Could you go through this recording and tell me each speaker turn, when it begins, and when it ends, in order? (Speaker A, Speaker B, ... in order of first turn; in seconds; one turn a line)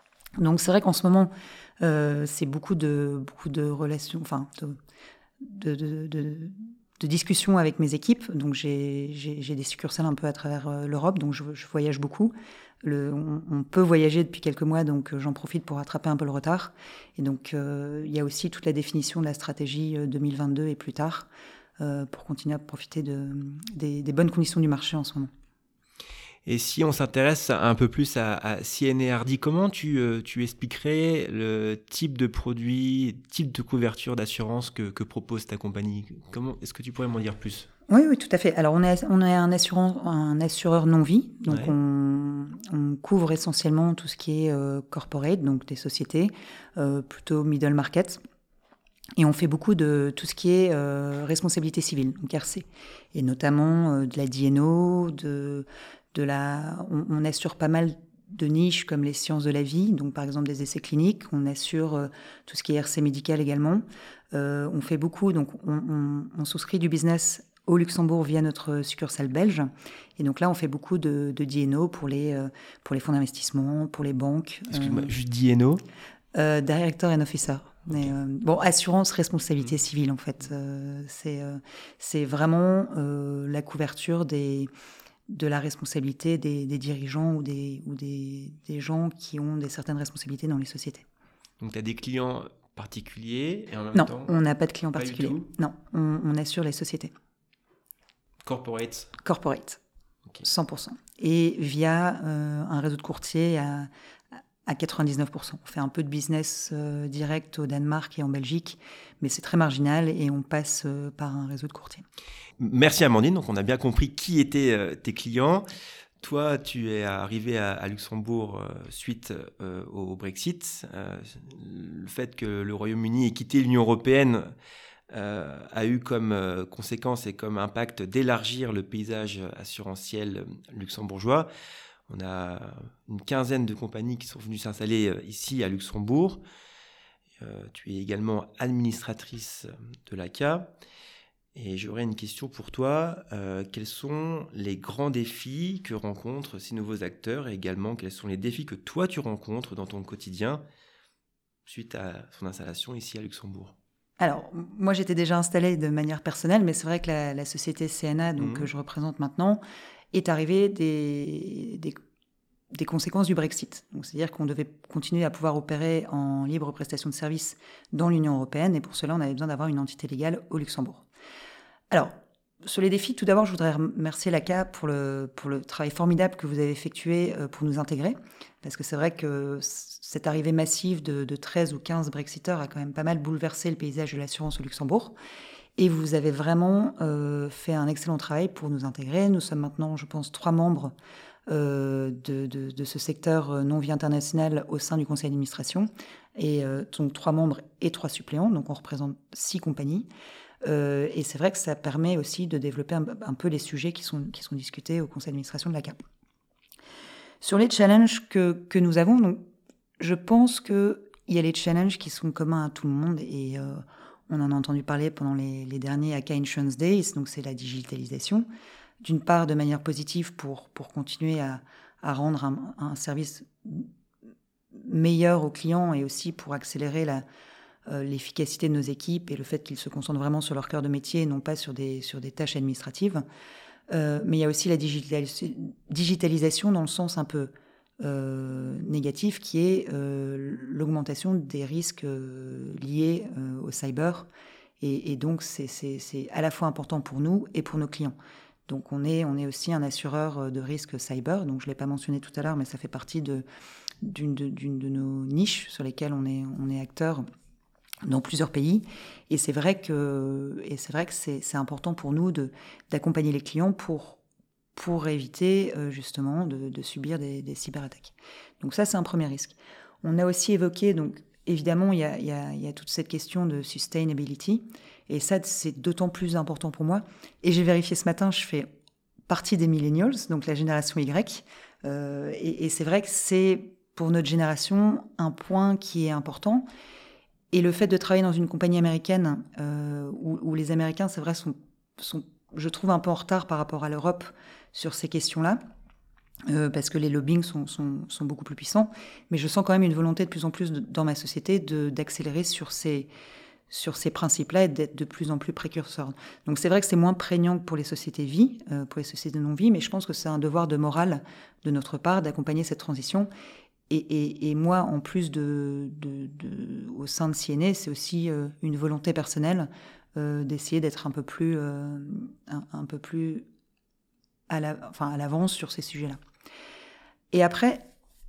Speaker A: 0.4-4.8
Speaker A: 5.4-21.3
Speaker A: 21.8-25.3
Speaker B: 26.4-37.7
Speaker A: 37.9-48.2
Speaker B: 41.5-41.7
Speaker A: 49.2-75.1
Speaker B: 74.7-75.8
Speaker A: 76.3-84.7
Speaker A: 85.3-91.0
Speaker B: 91.6-94.3
Speaker A: 93.9-97.1
Speaker B: 94.9-95.5
Speaker B: 98.4-99.1
Speaker A: 99.2-99.8
Speaker A: 100.4-103.9
Speaker A: 104.6-112.0
Speaker B: 112.6-115.6
Speaker B: 116.2-124.5
Speaker B: 125.1-131.5
Speaker B: 132.1-136.4
Speaker B: 137.4-140.7
Speaker B: 141.5-150.6
Speaker B: 151.7-153.7
Speaker A: 154.2-159.6
Speaker B: 158.4-158.7
Speaker A: 160.1-161.9
Speaker A: 162.7-171.0
Speaker A: 171.9-185.1
Speaker A: 185.8-190.9
Speaker A: 191.5-200.1
Speaker A: 200.6-206.0
Speaker A: 207.4-209.4
Speaker A: 210.0-218.4
Speaker A: 219.0-223.9
Speaker A: 224.7-227.2
Speaker A: 227.9-233.2
Speaker A: 233.9-244.3
Speaker A: 244.8-248.1
Speaker A: 248.7-253.4
Speaker A: 254.0-257.2
Speaker A: 258.1-264.2
Speaker A: 264.7-278.7
Speaker A: 279.3-286.6
Speaker A: 287.5-295.6
Speaker A: 296.5-303.1
Speaker A: 303.7-313.3
Speaker A: 313.9-323.4
Speaker A: 324.5-326.2
Speaker A: 327.3-327.9